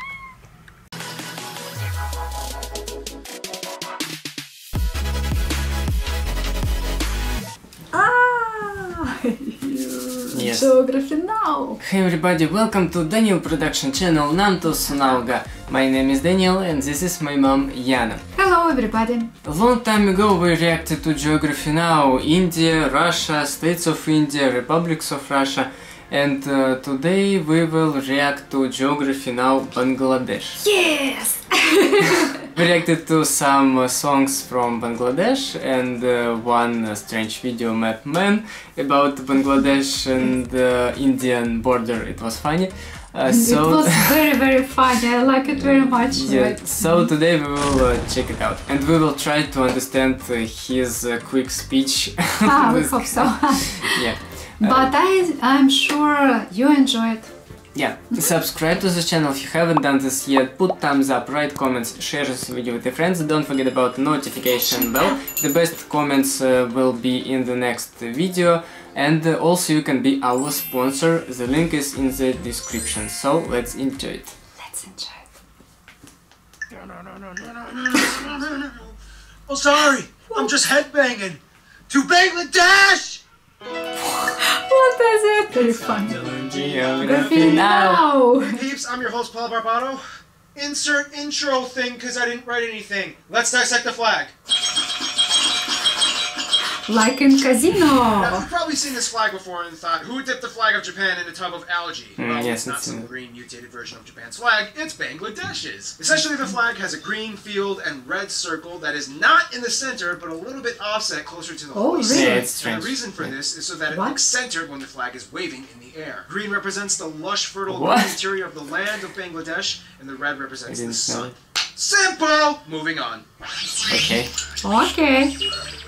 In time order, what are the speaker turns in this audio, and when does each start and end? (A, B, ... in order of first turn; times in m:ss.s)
0:07.9-0:11.8 A
0:10.3-0:10.7 B
0:11.8-0:18.2 B
0:18.3-0:19.3 A
0:19.4-0:30.6 B
0:30.6-0:32.4 A
0:32.2-0:44.3 B
0:43.3-0:47.1 A
0:46.0-0:54.9 B
0:52.4-0:54.1 A
0:54.6-0:57.3 A
0:57.7-1:14.3 B
1:14.6-1:15.3 A
1:16.8-1:18.9 C
1:19.5-1:23.2 C
1:24.0-1:26.2 A
1:25.6-1:34.3 C
1:26.1-1:28.1 B
1:27.0-1:28.6 A
1:36.9-1:38.5 A
1:38.1-2:03.2 C
1:42.2-1:43.1 B
1:51.7-1:52.5 A
1:52.1-1:53.3 B
1:53.9-1:54.3 A
1:57.7-1:58.2 B
2:00.7-2:01.3 B
2:03.8-2:04.3 B
2:04.6-2:05.3 A